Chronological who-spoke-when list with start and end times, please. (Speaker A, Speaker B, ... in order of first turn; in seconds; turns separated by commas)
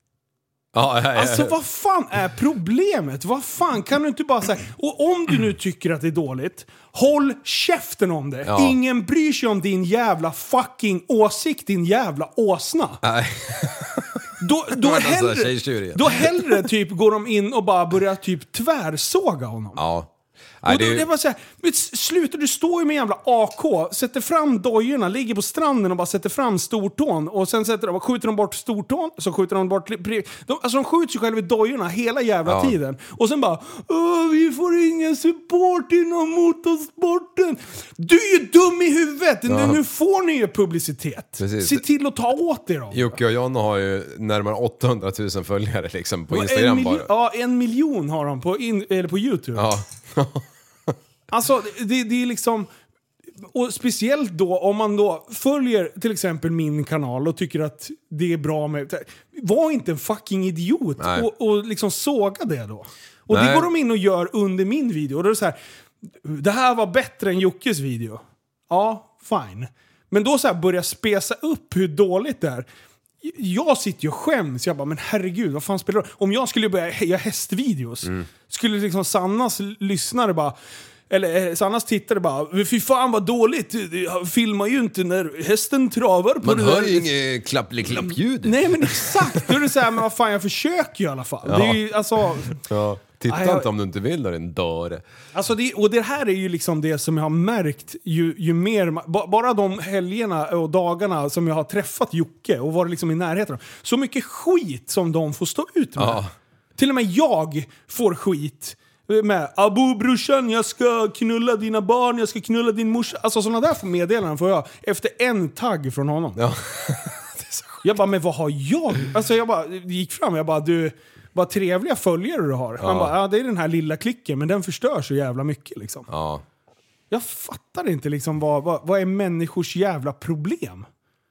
Speaker A: 0.7-1.6, Speaker B: 1.1-13.0, Speaker A: 8.4-8.8, Speaker A: 13.0-14.2, Speaker B: 14.4-19.8, Speaker A: 14.7-16.7, Speaker A: 19.8-21.1, Speaker B: 20.7-43.1, Speaker A: 32.5-32.8, Speaker A: 39.5-39.8, Speaker A: 41.4-41.9, Speaker A: 42.9-47.1, Speaker B: 46.3-49.6, Speaker A: 49.5-51.0, Speaker B: 51.3-52.7, Speaker B: 53.4-65.6, Speaker A: 61.0-61.3, Speaker A: 63.3-63.7, Speaker B: 66.2-72.7, Speaker B: 73.2-80.5, Speaker B: 81.1-87.1, Speaker A: 86.4-89.6, Speaker B: 88.4-92.6, Speaker A: 91.5-95.0, Speaker B: 93.3-93.7, Speaker B: 95.3-106.2, Speaker A: 106.0-106.3, Speaker B: 106.8-116.4, Speaker A: 116.4-117.9, Speaker B: 117.8-126.1, Speaker A: 122.8-123.2, Speaker A: 126.1-126.4, Speaker B: 127.1-130.9